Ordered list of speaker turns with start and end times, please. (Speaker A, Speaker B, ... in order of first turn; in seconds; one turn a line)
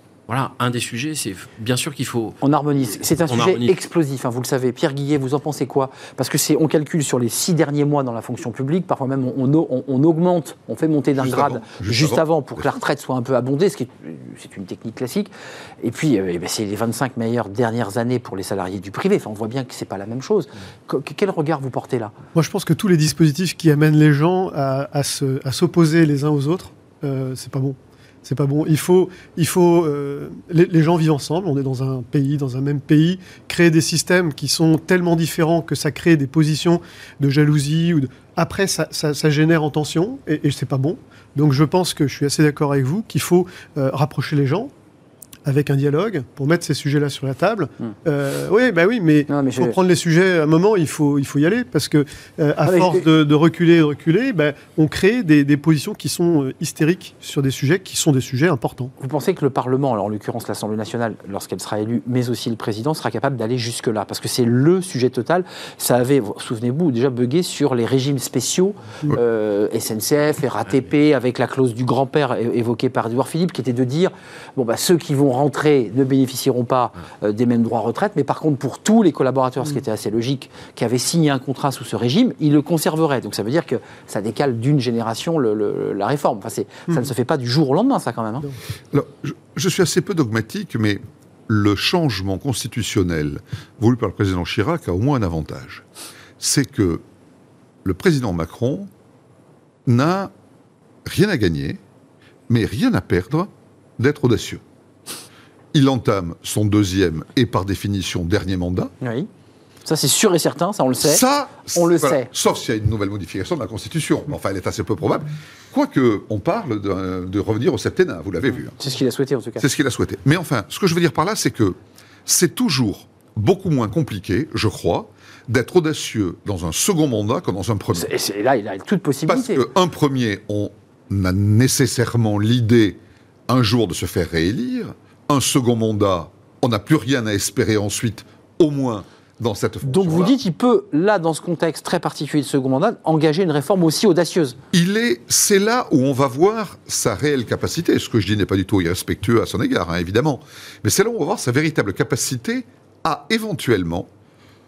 Speaker A: 0.3-2.4
Speaker B: 2.4-15.3
Speaker A: 3.3-3.7
Speaker C: 11.2-12.7
Speaker B: 15.8-22.1
Speaker D: 22.3-44.7
Speaker D: 45.4-58.9
Speaker B: 49.3-49.8
Speaker B: 52.6-53.0
Speaker B: 59.0-88.5
Speaker C: 88.9-95.8
Speaker C: 96.4-97.0
Speaker C: 97.8-98.9
Speaker C: 99.8-100.3
Speaker C: 101.0-101.8
Speaker C: 102.5-104.6
Speaker C: 105.7-108.9
Speaker B: 109.0-109.3
Speaker B: 109.8-111.2
Speaker C: 111.0-118.7
Speaker B: 111.7-112.3
Speaker B: 118.8-119.6
Speaker C: 119.6-128.1
Speaker B: 127.9-129.6
Speaker C: 129.3-140.3
Speaker B: 139.8-144.6
Speaker C: 144.7-154.1